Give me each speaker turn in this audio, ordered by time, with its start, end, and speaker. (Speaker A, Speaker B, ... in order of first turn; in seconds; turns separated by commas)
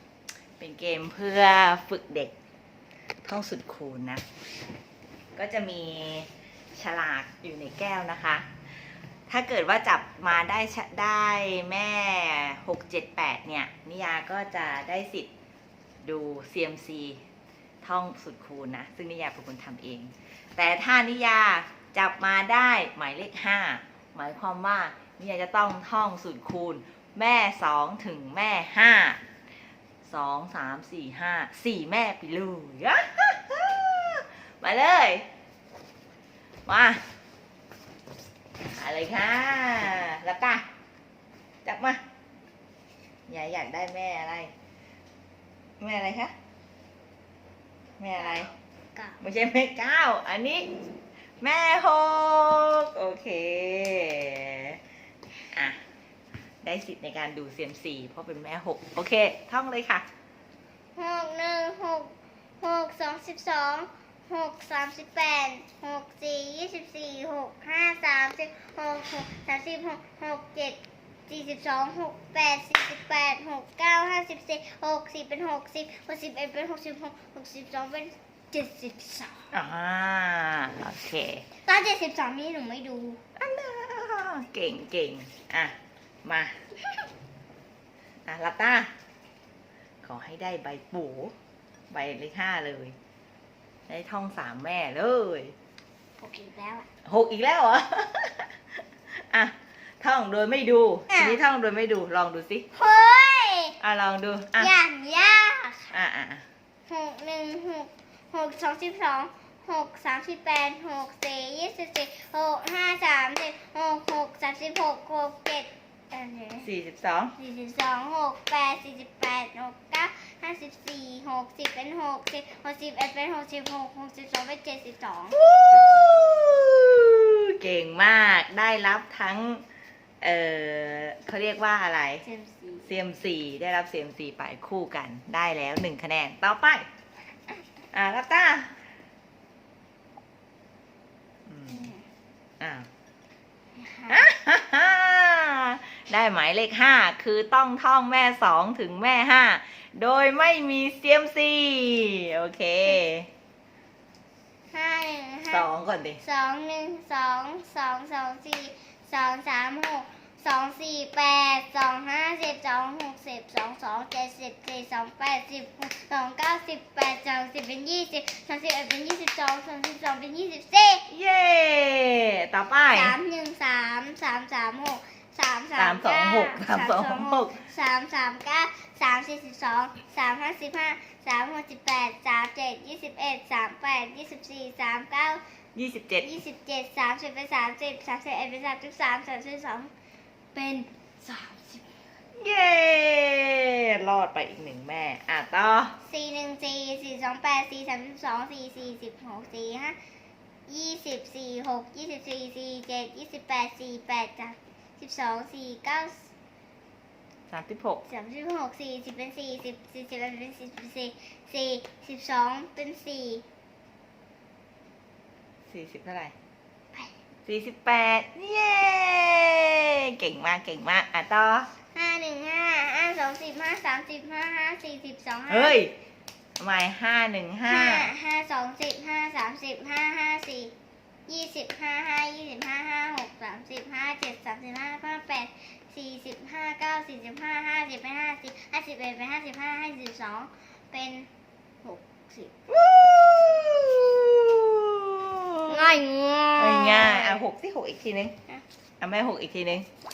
Speaker A: 0.6-2.3, Speaker A: 3.2-4.2, Speaker A: 5.3-8.4, Speaker A: 9.3-15.3, Speaker A: 16.0-17.2, Speaker A: 17.8-29.2, Speaker A: 30.0-35.2, Speaker A: 36.7-37.0, Speaker A: 38.7-40.6, Speaker A: 41.6-42.0, Speaker A: 43.3-44.5, Speaker A: 45.8-46.3, Speaker A: 48.0-48.5, Speaker B: 48.1-49.2, Speaker A: 49.2-50.7, Speaker A: 51.4-54.8, Speaker A: 55.5-55.8, Speaker A: 56.6-60.0, Speaker B: 61.0-79.5, Speaker A: 79.5-81.5, Speaker B: 81.6-83.2, Speaker A: 83.4-86.5, Speaker A: 88.2-88.9, Speaker A: 90.0-91.3, Speaker A: 91.9-92.9, Speaker A: 93.9-95.5, Speaker B: 96.2-96.9, Speaker A: 97.0-98.5, Speaker A: 99.1-102.7, Speaker B: 101.1-101.4, Speaker B: 102.7-103.8, Speaker A: 103.8-104.7, Speaker B: 104.6-106.0, Speaker A: 105.9-106.4, Speaker B: 106.9-116.7, Speaker A: 116.6-117.3, Speaker B: 117.3-125.4, Speaker A: 125.3-129.6, Speaker A: 130.2-132.2, Speaker B: 132.2-132.9, Speaker A: 132.8-136.8, Speaker A: 137.9-138.7, Speaker A: 141.5-141.9, Speaker B: 141.7-142.0, Speaker A: 142.6-142.9, Speaker B: 143.8-144.3, Speaker A: 144.1-153.3, Speaker B: 154.7-155.7, Speaker A: 155.5-156.2, Speaker B: 156.2-171.1, Speaker A: 171.1-173.2, Speaker B: 172.9-185.4, Speaker A: 175.8-177.6, Speaker A: 185.7-186.3, Speaker B: 186.2-189.9, Speaker B: 190.5-191.9, Speaker A: 192.3-195.9, Speaker B: 196.1-200.0, Speaker B: 200.7-206.3, Speaker A: 207.5-208.0, Speaker B: 208.0-213.4, Speaker A: 215.7-216.3, Speaker A: 217.4-221.7, Speaker B: 221.9-225.8, Speaker A: 225.5-225.9, Speaker A: 226.6-228.1, Speaker B: 227.7-230.7, Speaker B: 231.3-241.3, Speaker B: 241.8-242.6, Speaker A: 242.7-246.0, Speaker B: 245.7-247.4, Speaker A: 246.6-248.3, Speaker A: 249.0-249.9